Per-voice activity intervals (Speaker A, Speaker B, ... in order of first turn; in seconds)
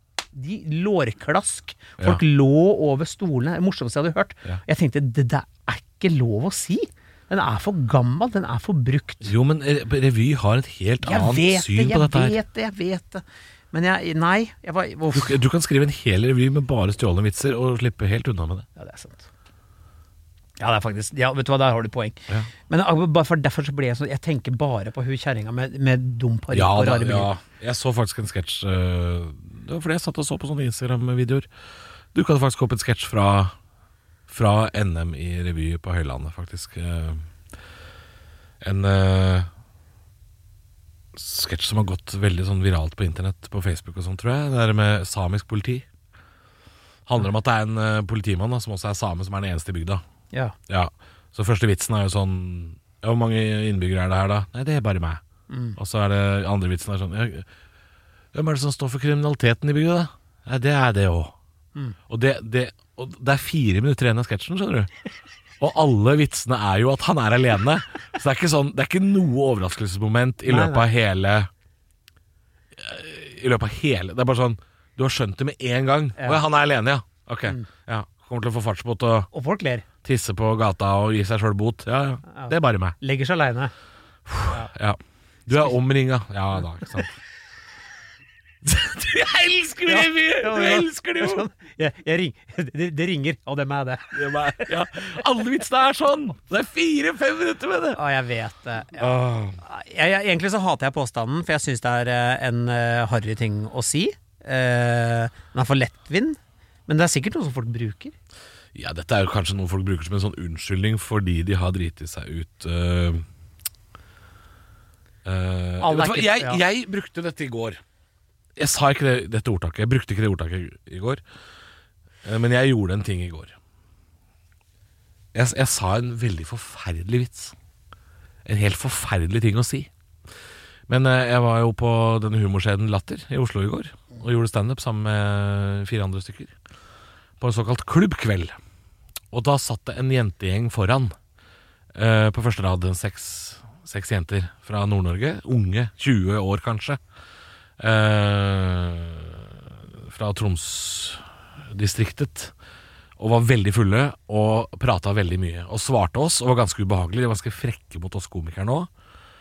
Speaker A: 0.3-9.3, 11.0-15.4, 18.8-19.3, 20.6-27.3, 55.5-55.8, 70.4-70.9, 79.3-79.8, 82.3-83.7, 89.8-94.7, 97.9-108.1, 115.8-116.6
Speaker B: 9.2-12.4, 15.1-18.7, 26.5-31.5, 32.1-33.5, 34.3-37.3, 38.6-39.5, 41.1-45.9, 47.0-50.0, 50.7-55.2, 55.8-57.5, 58.3-61.3, 62.1-64.9, 65.6-71.5, 72.8-79.3, 80.0-83.0, 84.3-87.2, 88.6-91.5, 94.1-98.0, 99.0-99.6, 108.7-113.2, 115.2-117.8, 118.6-121.2, 122.2-123.5, 125.3-127.5, 128.4-129.9, 130.9-136.5, 137.4-138.6, 139.3-141.1, 141.9-147.0, 147.8-152.5, 153.2-158.9